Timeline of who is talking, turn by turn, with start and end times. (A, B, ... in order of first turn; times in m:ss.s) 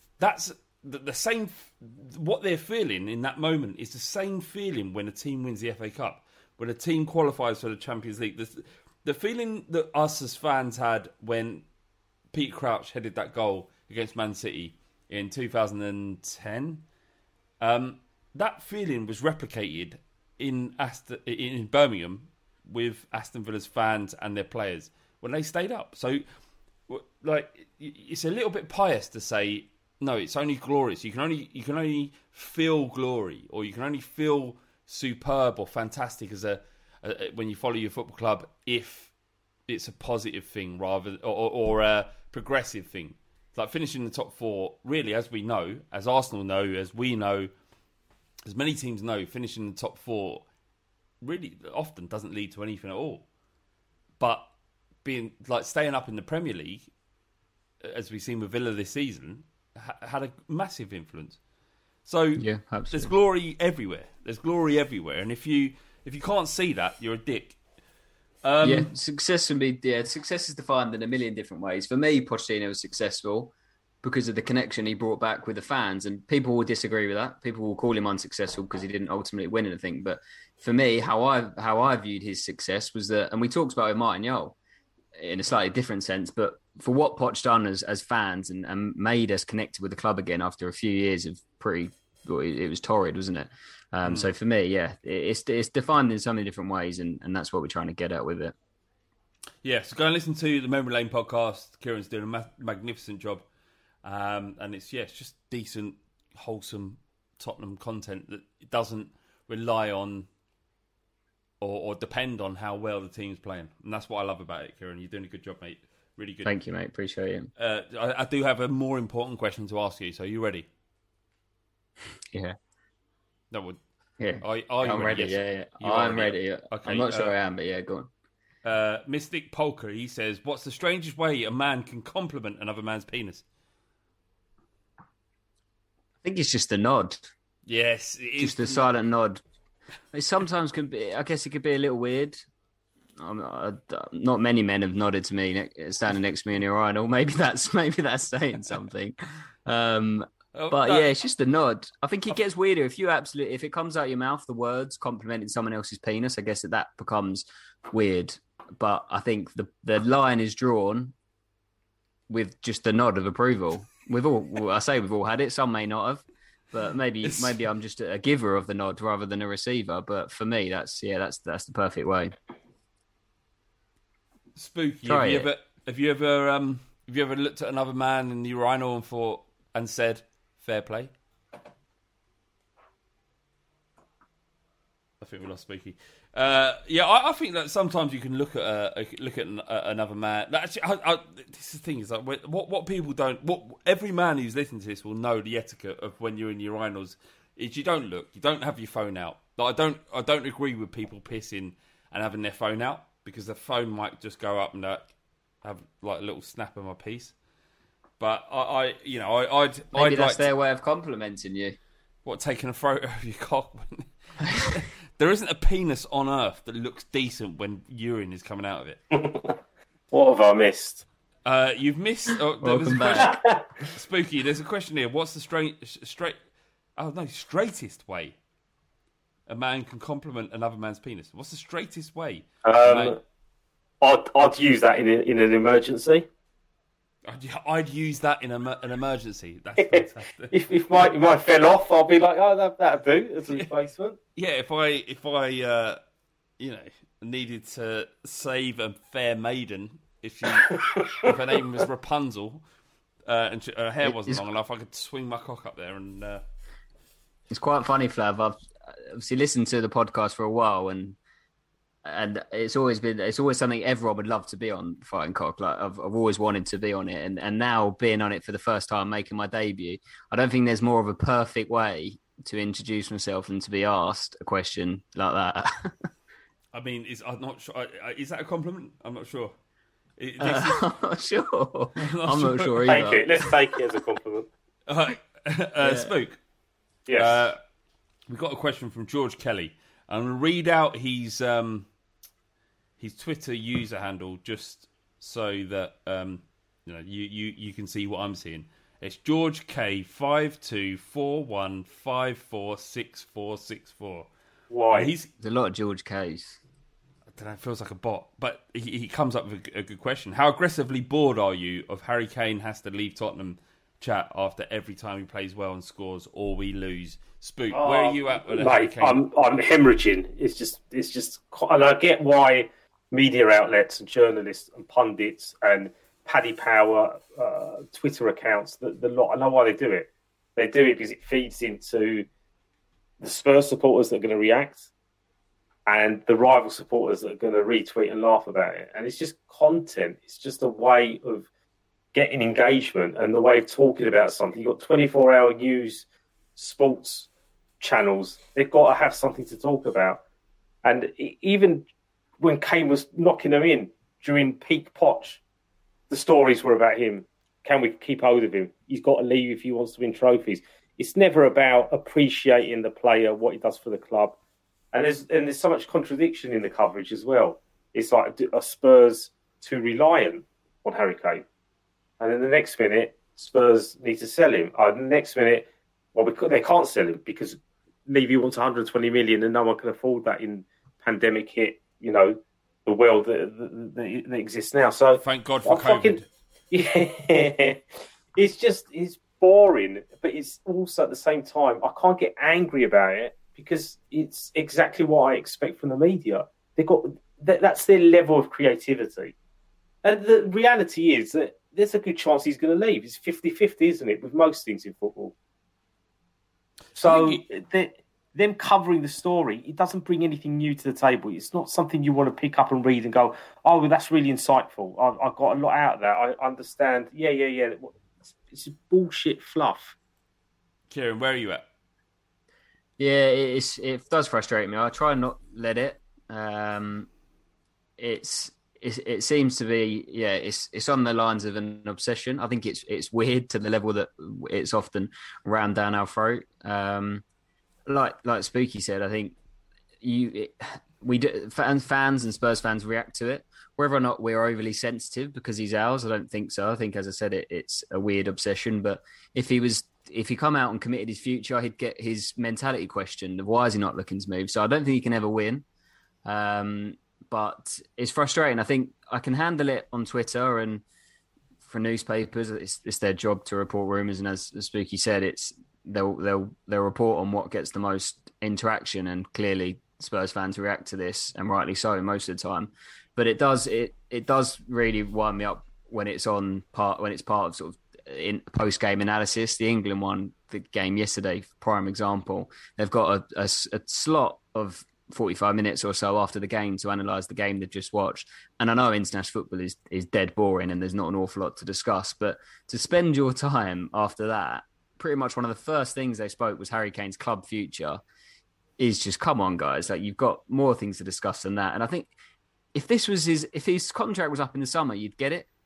0:00.2-0:11.6 A
0:12.3-0:16.8 A
0:17.6-0:26.2 A
0:26.9-0:39.1 A
0:39.7-0:47.5 A
0:48.4-0:50.4 A
0:51.2-0:53.2 A
0:54.2-0:54.5 A
0:55.0-0:56.9 A
0:57.8-1:01.4 A
1:02.0-1:07.6 A
1:02.4-1:03.1 B
1:08.4-1:08.9 A
1:08.6-1:13.5 B
1:14.0-1:24.5 B
1:25.2-1:38.5 B
1:34.0-1:34.3 A
1:39.6-1:43.4 A
1:44.0-1:50.3 A
1:51.6-1:56.5 A
1:56.4-1:57.5 B
1:57.6-2:00.7 A
2:03.5-2:03.8 A
2:04.2-2:08.1 B
2:04.4-2:07.3 A
2:08.6-2:13.4 A
2:16.2-2:17.3 B
2:17.7-2:18.9 A
2:18.4-2:19.4 B
2:20.1-2:22.4 B
2:23.2-2:41.1 B
2:30.5-2:31.1 A
2:42.3-2:52.3 B
2:47.2-2:47.6 A
2:54.6-3:01.1 A
2:55.0-2:55.5 B
3:05.2-3:25.0 A
3:25.6-3:27.3 A
3:28.2-3:30.5 A
3:29.9-3:31.8 B
3:32.2-3:39.0 A
3:39.1-3:39.6 C
3:40.1-3:41.0 C
3:41.4-3:46.4 A
3:42.6-3:43.4 B
3:47.0-3:48.4 A
3:49.5-3:53.2 A
3:52.6-3:53.2 C
3:54.0-3:56.2 C
3:57.3-4:01.0 A
3:59.8-4:04.2 C
4:04.4-4:06.0 A
4:06.6-4:12.6 A
4:10.6-4:11.3 C
4:13.2-4:16.4 A
4:14.0-4:14.4 B
4:17.5-4:21.2 B
4:22.0-4:36.0 B
4:36.7-4:39.5 A
4:40.2-4:40.8 A
4:40.4-4:43.8 B
4:42.0-4:43.1 A
4:42.8-4:44.5 C
4:44.9-4:46.4 A
4:45.8-4:46.1 B
4:47.1-4:47.5 C
4:47.1-4:47.6 A
4:48.3-4:51.9 A
4:53.0-5:04.3 A
5:04.7-5:05.1 C
5:04.9-5:05.3 A
5:05.4-5:06.6 B
5:07.3-5:19.2 A
5:17.7-5:32.3 C
5:33.2-5:34.9 C
5:35.9-5:41.5 C
5:42.1-5:46.0 C
5:46.6-5:47.3 C
5:47.8-5:50.2 C
5:50.8-5:51.8 C
5:52.4-5:55.4 C
5:56.1-6:04.4 C
6:04.9-6:11.4 C
6:12.2-6:27.8 C
6:25.2-6:26.3 A
6:28.3-6:39.3 C
6:40.0-6:45.3 C
6:46.9-6:47.4 A
6:47.0-6:57.9 C
6:58.4-7:00.0 C
7:00.9-7:01.6 A
7:03.0-7:07.1 B
7:08.0-7:17.2 B
7:17.9-7:19.4 B
7:20.0-7:35.6 B
7:36.2-7:40.8 B
7:41.6-8:18.0 B
8:18.8-8:22.1 B
8:22.7-8:25.5 B